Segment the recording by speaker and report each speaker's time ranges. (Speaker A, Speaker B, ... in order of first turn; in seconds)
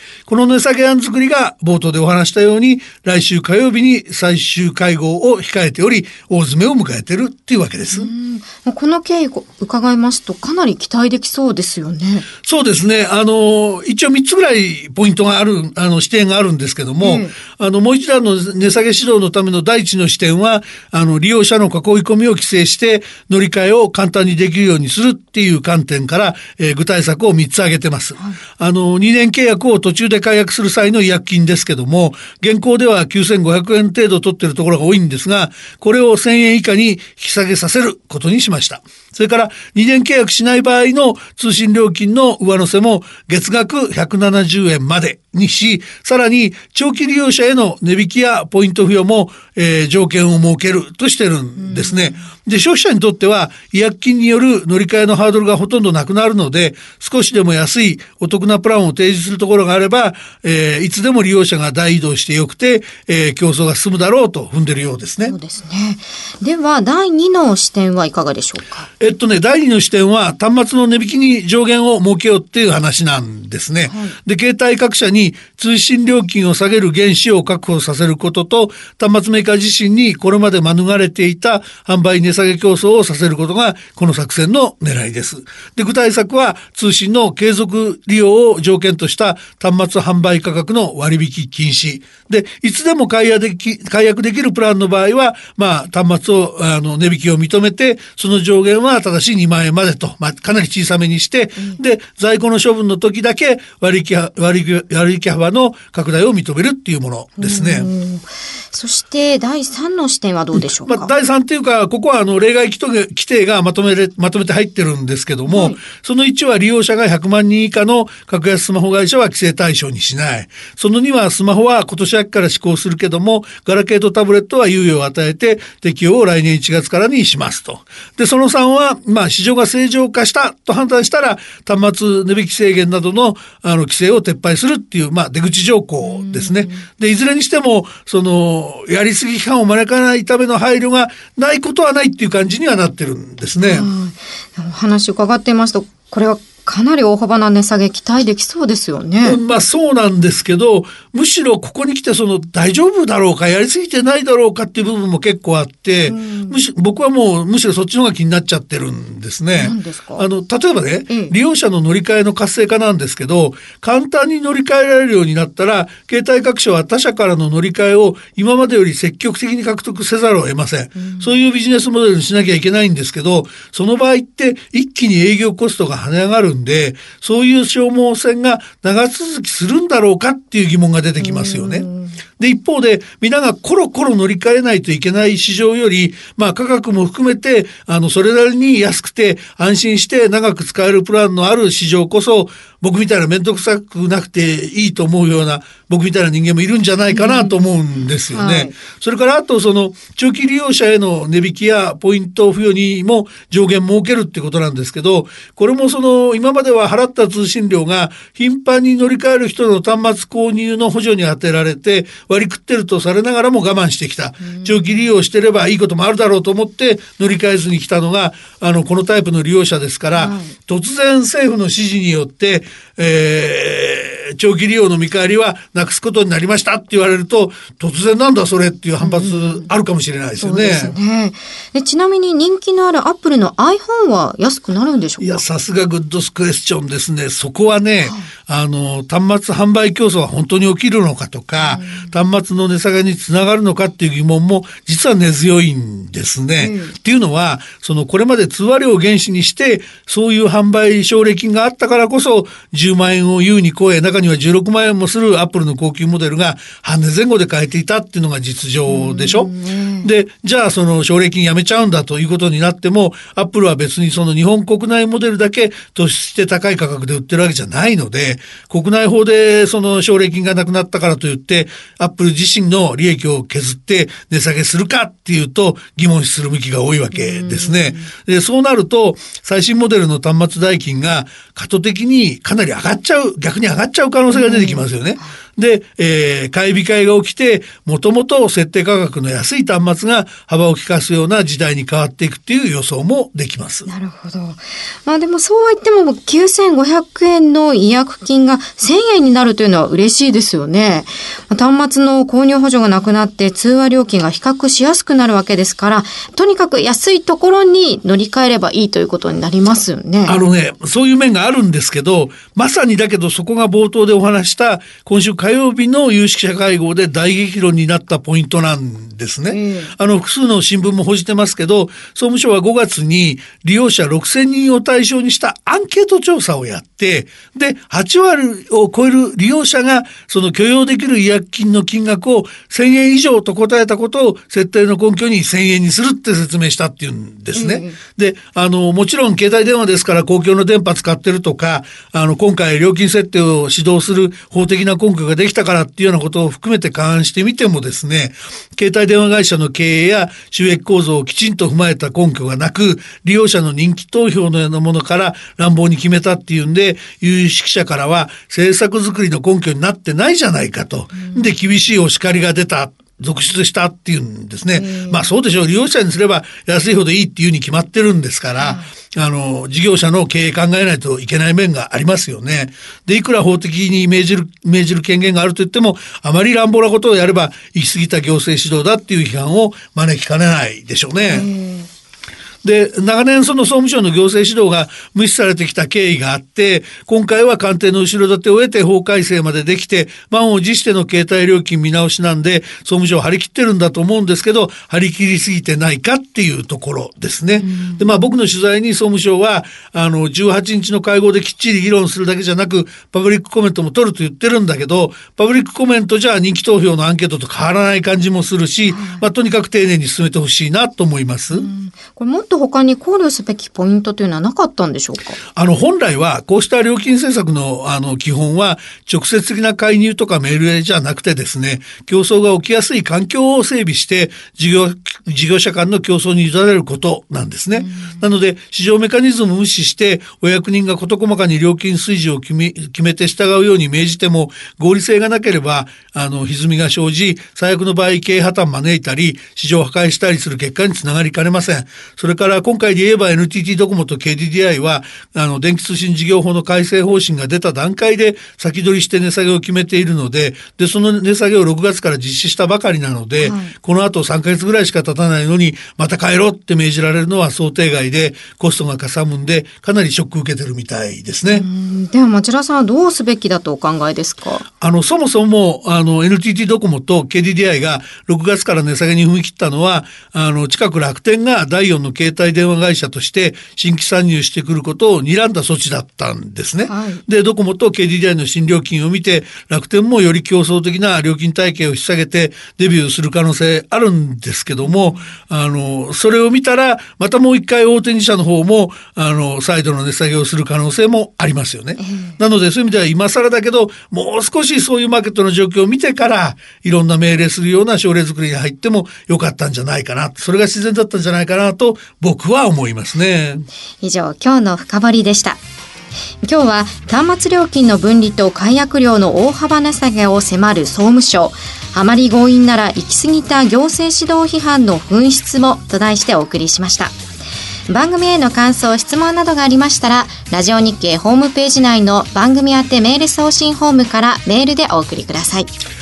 Speaker A: 0.3-8.1, 12.4-65.3, 69.0-107.9, 110.5-143.9, 149.2-181.9, 182.4-231.0, 235.2-293.9, 310.2-381.5, 382.6-411.7, 415.6-461.7, 464.8-503.7
Speaker B: 7.9-12.3, 17.0-17.4, 51.7-52.2, 65.3-68.9, 73.9-74.2, 107.4-111.1, 115.5-115.8, 136.0-136.8, 143.6-149.4, 156.0-156.6, 159.6-160.3, 171.0-171.3, 181.2-182.2, 197.1-197.6, 198.3-198.8, 214.4-215.0, 220.1-220.6, 229.0-229.7, 230.4-235.4, 241.6-242.1, 246.6-247.0, 258.9-260.1, 277.1-278.1, 284.3-285.4, 293.9-310.4, 319.5-319.9, 337.5-338.0, 361.2-361.5, 364.8-365.2, 368.6-368.9, 381.3-381.9, 397.7-398.0, 408.9-409.2, 411.5-415.4, 427.8-428.2, 453.4-453.7, 461.5-464.7, 476.9-477.2, 484.8-485.3, 492.0-492.4, 504.0-505.6, 506.4-517.1, 517.9-525.7